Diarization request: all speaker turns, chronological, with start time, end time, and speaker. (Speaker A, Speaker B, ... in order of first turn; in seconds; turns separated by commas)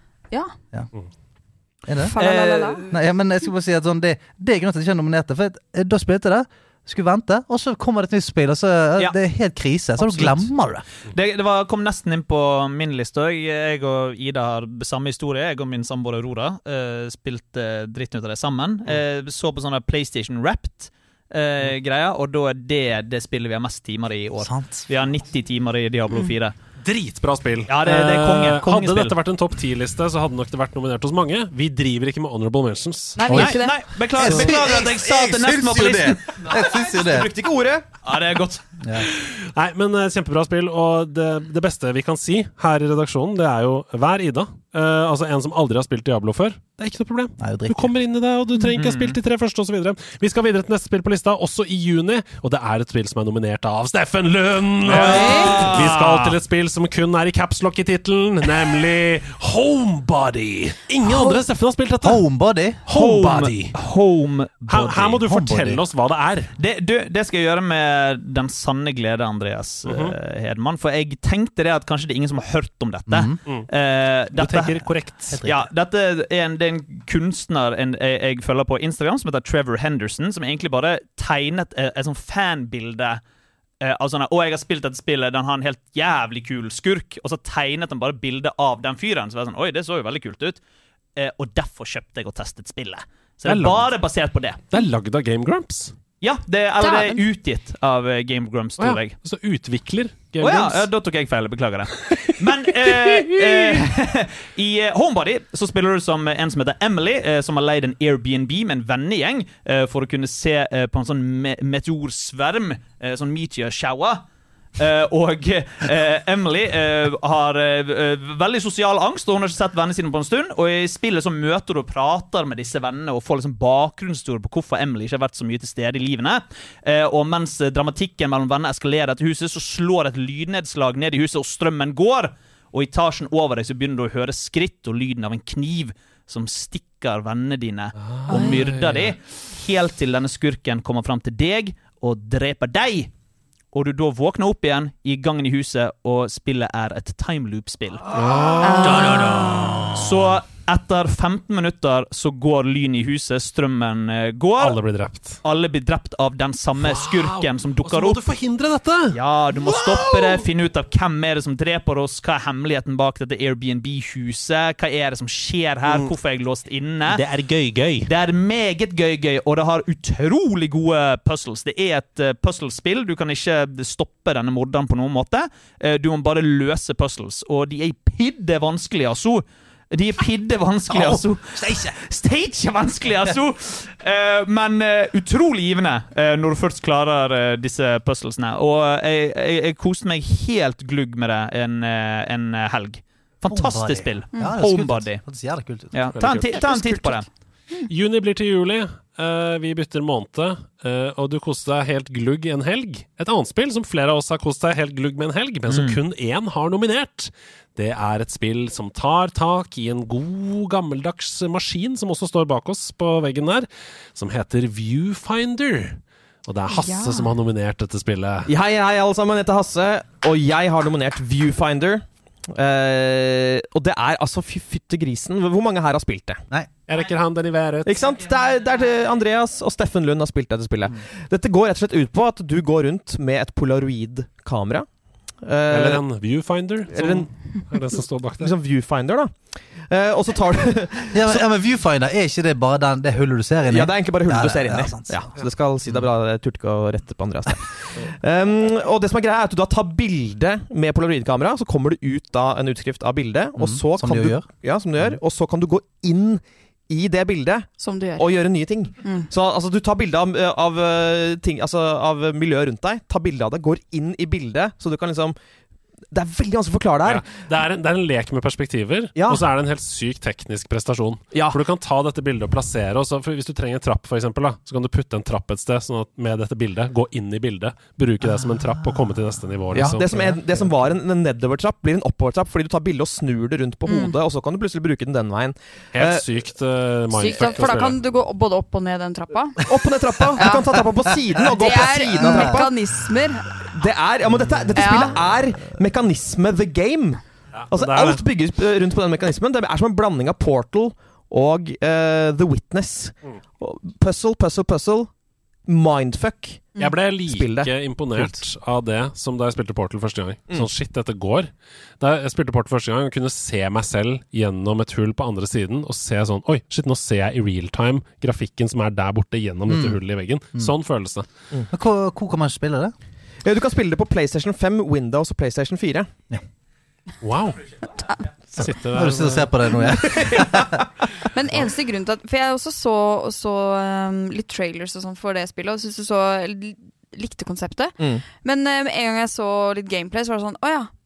Speaker A: 1.9-2.1, Speaker B: 1.9-2.8, Speaker C: 2.2-3.0, Speaker A: 2.9-10.8, Speaker C: 10.0-10.5, Speaker C: 11.1-26.6, Speaker A: 24.4-24.9, Speaker D: 26.8-33.4, Speaker C: 27.7-29.2, Speaker B: 33.1-33.8, Speaker A: 33.2-33.5, Speaker C: 33.3-36.4, Speaker A: 34.1-37.3, Speaker E: 36.5-37.9, Speaker C: 38.0-38.8, Speaker A: 38.8-39.1, Speaker D: 39.2-62.2, Speaker A: 47.4-47.9, Speaker C: 48.7-49.2, Speaker C: 54.9-56.4, Speaker B: 55.0-55.6, Speaker A: 62.0-62.8, Speaker D: 62.9-63.7, Speaker C: 62.9-65.2, Speaker D: 64.7-66.5, Speaker A: 65.3-65.8, Speaker C: 66.6-74.8, Speaker D: 69.8-70.2, Speaker A: 73.1-73.4, Speaker D: 74.4-75.5, Speaker A: 74.5-75.5, Speaker C: 75.4-83.2, Speaker C: 83.8-90.6, Speaker C: 91.2-94.6, Speaker D: 93.5-93.9, Speaker D: 94.7-96.0, Speaker C: 96.2-99.2, Speaker B: 96.8-97.2, Speaker D: 98.8-100.9, Speaker C: 100.4-114.2, Speaker D: 102.0-103.8, Speaker C: 114.8-143.1, Speaker D: 138.0-139.1, Speaker B: 138.3-138.6, Speaker C: 143.7-148.1, Speaker D: 148.1-150.0, Speaker B: 148.6-149.7, Speaker C: 148.8-149.3, Speaker C: 149.9-154.8, Speaker D: 154.6-155.4, Speaker C: 155.4-158.2, Speaker D: 156.8-160.4, Speaker C: 159.1-167.2, Speaker D: 165.8-166.1, Speaker D: 167.1-168.1, Speaker C: 168.1-195.2, Speaker A: 180.9-181.9, Speaker A: 193.5-195.9, Speaker B: 194.3-194.6, Speaker C: 195.9-197.3, Speaker D: 196.1-196.8, Speaker D: 197.9-218.5, Speaker C: 205.7-206.0, Speaker B: 216.7-217.3, Speaker E: 218.5-226.4, Speaker D: 226.9-228.1, Speaker E: 227.8-236.1, Speaker D: 235.7-238.5, Speaker E: 236.9-241.4, Speaker A: 241.1-245.2, Speaker E: 243.7-265.3, Speaker A: 253.6-255.2, Speaker B: 257.8-258.3, Speaker B: 259.0-259.3, Speaker E: 266.1-267.3, Speaker D: 267.0-280.4, Speaker E: 269.1-269.4, Speaker E: 271.3-271.6, Speaker A: 278.2-280.1, Speaker E: 279.7-286.2, Speaker B: 283.9-284.1, Speaker D: 285.9-288.0, Speaker B: 287.1-289.6, Speaker E: 289.6-292.7, Speaker B: 290.4-290.8, Speaker B: 291.3-293.7, Speaker A: 292.1-292.7, Speaker E: 293.7-305.1, Speaker A: 294.4-295.8, Speaker B: 294.7-295.2, Speaker D: 297.5-298.2, Speaker E: 305.6-308.3, Speaker D: 306.8-321.2, Speaker A: 319.7-320.0, Speaker A: 321.7-322.9, Speaker E: 323.4-326.1, Speaker D: 327.2-327.6, Speaker D: 328.5-329.9, Speaker A: 328.9-330.8, Speaker E: 329.9-330.6, Speaker B: 331.3-340.9